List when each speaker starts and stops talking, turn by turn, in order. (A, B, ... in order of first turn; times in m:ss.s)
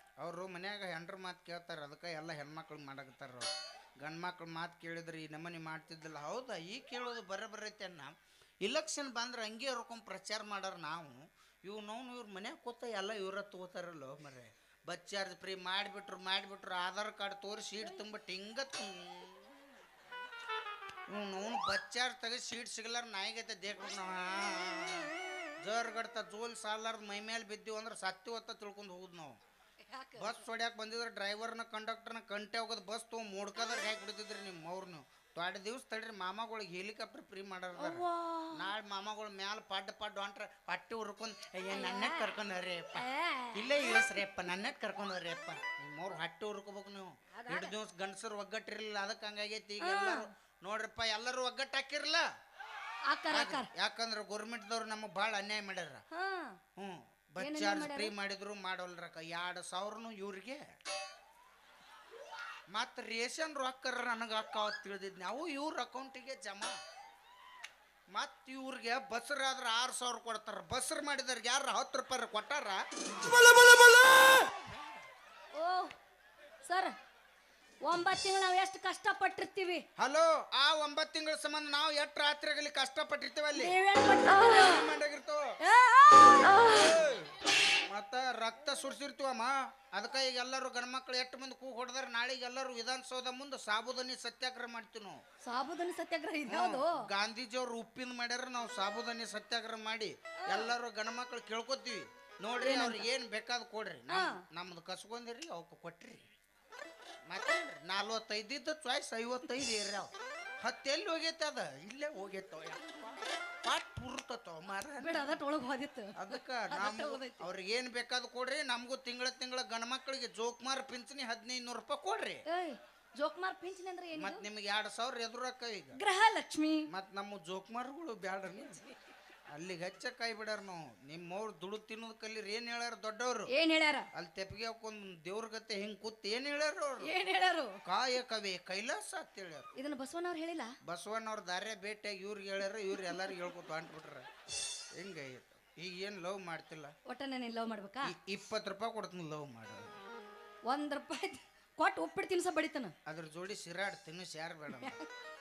0:00.2-0:03.5 A
0:04.0-0:08.1 A
0:08.6-0:19.5 A
0:21.1-0:29.3 A
0:29.8-0:30.4 B
0:30.2-0:38.0 A
0:37.8-0:38.7 B
0:38.5-0:52.2 A
0:41.7-0:42.3 B
0:43.0-0:43.7 B
0:47.3-0:47.7 B
0:49.8-0:50.2 B
0:53.1-0:53.7 B
0:53.3-0:56.0 A
0:56.1-0:56.6 B
0:56.8-1:00.6 A
0:57.4-0:58.1 B
1:02.7-1:06.7 A
1:08.1-1:12.8 A
1:13.5-1:14.7 A
1:15.5-1:15.9 B
1:16.6-1:16.9 B
1:17.8-1:19.8 B
1:20.0-1:23.7 A
1:23.6-1:24.8 B
1:24.4-1:25.4 A
1:25.6-1:26.8 B
1:26.6-1:35.2 A
1:35.4-1:37.0 B
1:36.5-1:46.2 A
1:40.4-1:40.7 B
1:42.6-1:43.0 B
1:44.1-1:44.4 B
1:47.3-1:55.4 A
1:55.0-1:57.4 B
1:56.2-2:02.4 A
2:02.5-2:04.4 B
2:04.2-2:06.0 A
2:06.0-2:06.8 B
2:06.9-2:08.8 A
2:08.5-2:09.0 B
2:09.5-2:13.5 A
2:13.5-2:14.1 B
2:14.1-2:17.1 A
2:17.0-2:17.8 B
2:17.9-2:19.7 A
2:19.8-2:20.7 B
2:20.9-2:24.3 A
2:25.0-2:26.9 A
2:27.1-2:28.1 B
2:28.1-2:29.9 A
2:30.7-2:32.9 B
2:33.0-2:35.0 A
2:34.7-2:35.1 B